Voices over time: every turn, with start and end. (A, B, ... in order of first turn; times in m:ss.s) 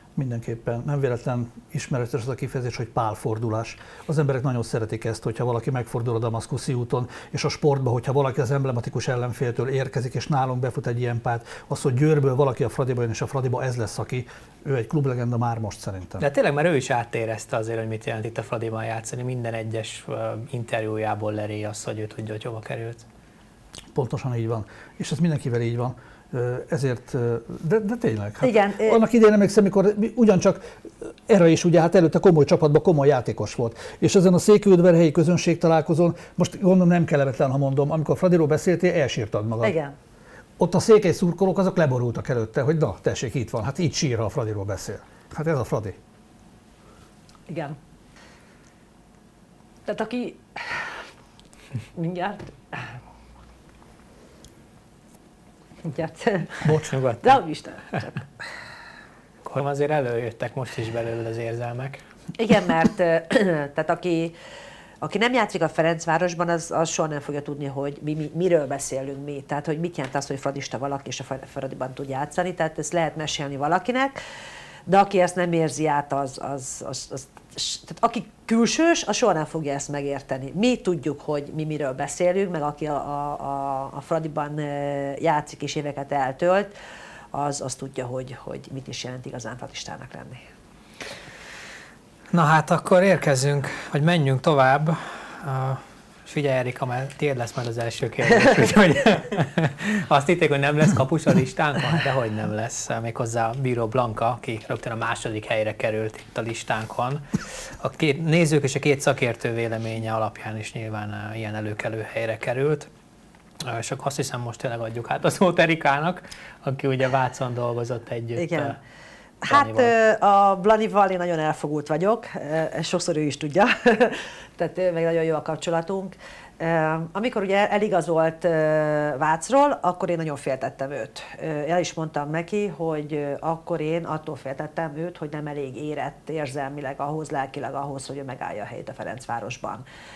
0:00.2-0:16.2 A
0:16.2-0:23.0 B
0:23.9-0:30.6 A
0:28.4-0:29.0 C
0:31.3-0:39.8 A
0:39.6-0:39.9 C
0:40.6-0:46.0 A
0:47.5-0:47.8 C
0:49.8-0:51.0 C
0:52.0-0:52.8 C
0:55.8-0:58.2 C
0:56.6-0:56.9 A
0:56.8-0:57.2 B
0:59.4-1:02.0 B
1:02.4-1:04.3 C
1:05.0-1:14.2 C
1:14.9-1:26.7 C
1:27.3-1:30.4 C
1:32.3-1:52.9 B
1:53.6-1:58.8 B
1:58.4-1:58.8 C
1:59.4-2:19.8 C
1:59.5-1:59.9 B